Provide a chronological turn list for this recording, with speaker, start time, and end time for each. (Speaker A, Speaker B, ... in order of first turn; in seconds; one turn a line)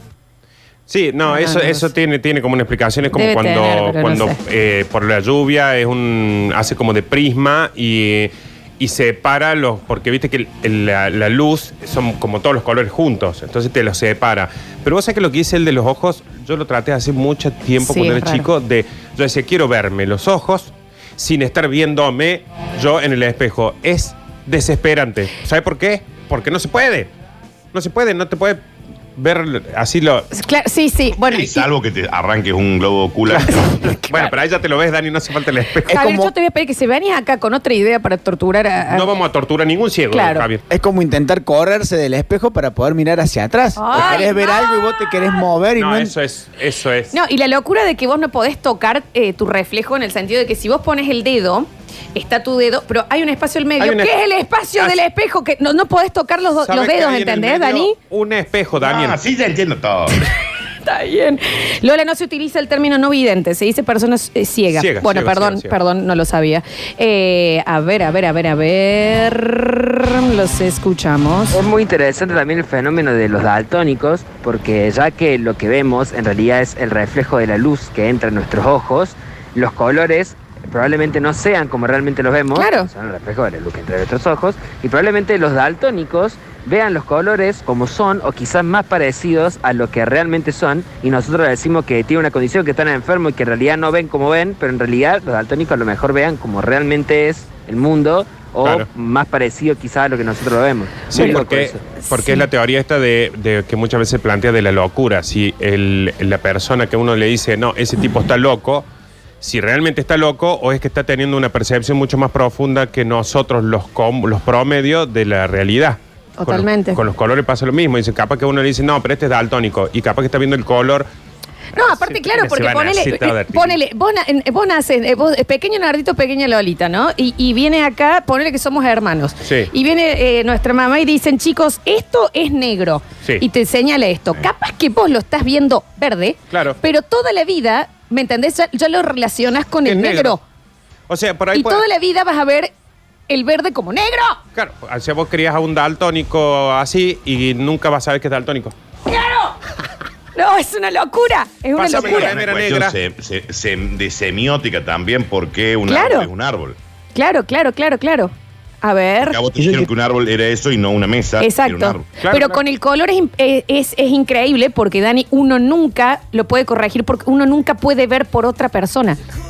Speaker A: 0.9-27.1
Speaker B: 1.2-1.9
Speaker B: 3.1-4.4
Speaker B: 17.8-18.5
Speaker A: 27.7-28.6
Speaker A: 29.2-30.3
Speaker B: 30.3-31.6
Speaker C: 31.2-33.7
Speaker A: 33.3-35.9
Speaker B: 33.5-34.3
Speaker D: 35.9-36.3
Speaker B: 35.9-39.1
Speaker A: 38.9-40.6
Speaker B: 40.1-40.5
Speaker D: 40.7-46.1
Speaker B: 43.8-45.1
Speaker A: 43.9-44.3
Speaker A: 45.8-47.1
Speaker B: 47.1-58.0
Speaker A: 53.8-54.1
Speaker A: 56.6-59.2
Speaker C: 58.8-60.2
Speaker B: 60.8-71.6
Speaker A: 64.7-65.7
Speaker E: 71.5-102.0
Speaker B: 82.5-82.9
Speaker A: 98.6-98.9
Speaker A: 101.1-108.8
Speaker B: 101.1-101.4
Speaker B: 102.0-102.5
Speaker A: 109.4-121.1
Speaker B: 116.4-117.0
Speaker A: 121.7-123.8
Speaker B: 121.7-140.4
Speaker A: 129.4-129.7
Speaker A: 136.5-136.8
Speaker A: 139.8-140.4
Speaker A: 141.1-141.8
Speaker B: 141.5-142.7
Speaker B: 143.3-144.4
Speaker A: 144.5-148.7
Speaker B: 149.1-149.6
Speaker B: 150.3-152.3
Speaker A: 151.8-152.9
Speaker C: 151.9-156.8
Speaker B: 155.9-156.3
Speaker B: 157.1-159.4
Speaker C: 159.2-162.1
Speaker B: 161.4-169.2
Speaker A: 162.2-162.6